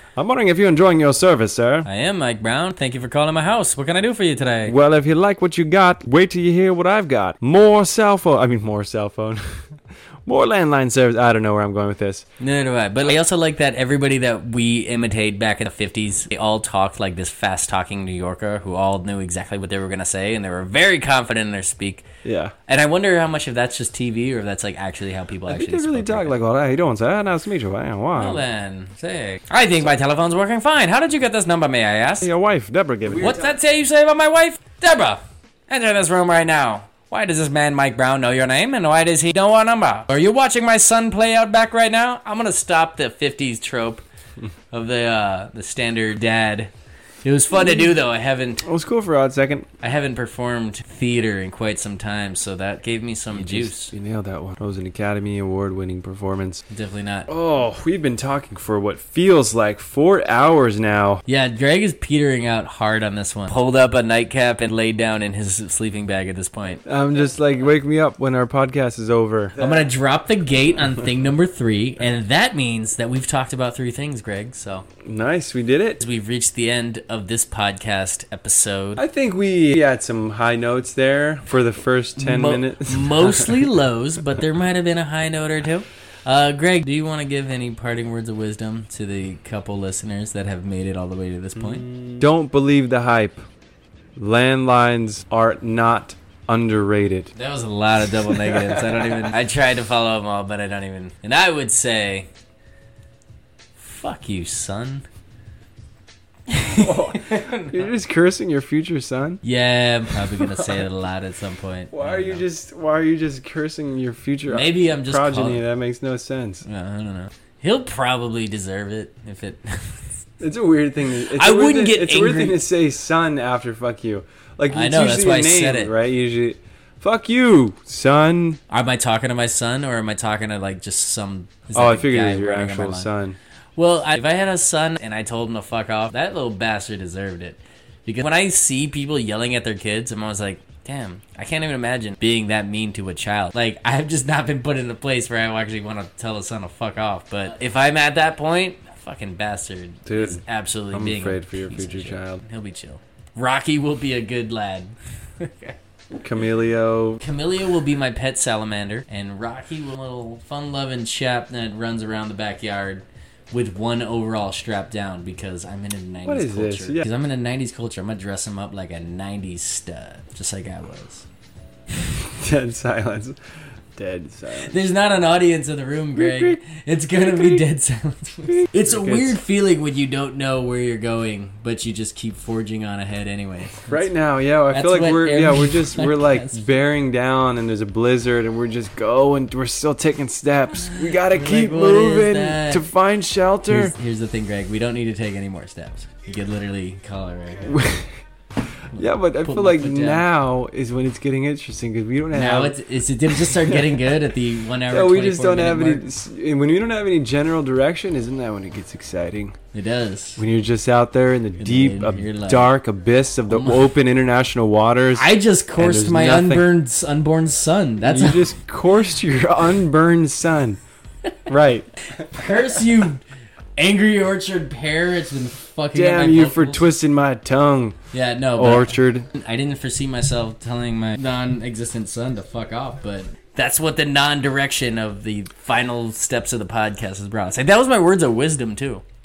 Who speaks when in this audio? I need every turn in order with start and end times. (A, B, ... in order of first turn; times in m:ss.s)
0:00.2-0:01.9 A
0:01.8-0:04.8 B
0:04.6-0:12.3 A
0:12.4-0:22.1 B
0:22.2-0:22.6 A
0:22.7-0:26.4 B
0:25.5-0:28.4 A
0:28.1-0:32.3 B
0:32.2-0:33.6 A
0:33.1-0:44.0 B
0:44.7-0:46.7 B
0:47.2-0:48.6 B
0:47.5-0:47.9 A
0:48.6-0:49.7 A
0:49.8-0:53.9 B
0:53.3-0:56.6 A
0:56.7-0:57.3 B
0:57.3-1:01.2 A
1:01.3-1:06.8 B
1:06.8-1:09.9 A
1:09.6-1:14.9 B
1:15.0-1:16.0 A
1:16.0-1:19.0 B
1:19.0-1:23.6 A
1:22.2-1:32.0 B
1:31.6-1:33.4 A
1:34.2-1:37.3 A
1:37.4-1:42.3 B
1:38.1-1:39.3 A
1:43.8-1:45.0 B
1:46.5-1:47.9 B
1:46.8-1:49.4 A
1:49.4-1:52.4 B
1:50.4-1:50.7 A
1:51.9-1:56.6 A
1:54.5-1:55.6 B
1:56.6-2:00.2 B
2:00.4-2:08.6 A
2:01.3-2:02.6 B
2:04.7-2:05.9 B
2:08.7-2:13.1 B
2:11.7-2:13.4 A
2:13.8-2:35.8 B
2:30.1-2:32.4 A
2:36.1-2:37.2 A
2:37.2-2:51.3 B
2:46.2-2:47.1 A
2:52.0-2:53.4 A
2:54.0-2:54.7 A
2:54.6-3:04.0 B
2:56.2-2:56.6 A
2:57.1-2:57.6 A
2:58.6-2:59.4 A
3:03.8-3:14.0 A
3:04.7-3:06.6 B
3:11.0-3:12.9 B
3:13.7-3:17.8 B
3:17.6-3:18.1 A
3:18.8-3:22.8 A
3:19.4-3:20.3 B
3:22.3-3:26.1 B
3:23.3-3:24.0 A
3:24.9-3:29.6 A
3:29.7-3:30.4 B
3:30.4-3:36.7 A
3:31.6-3:32.8 B
3:33.5-3:33.9 B
3:35.2-3:38.5 B
3:38.0-3:40.8 A
3:41.5-3:42.5 A
3:42.2-3:43.2 B
3:43.8-3:47.0 B
3:45.9-3:48.0 A
3:48.1-3:59.0 B
3:48.6-3:49.3 A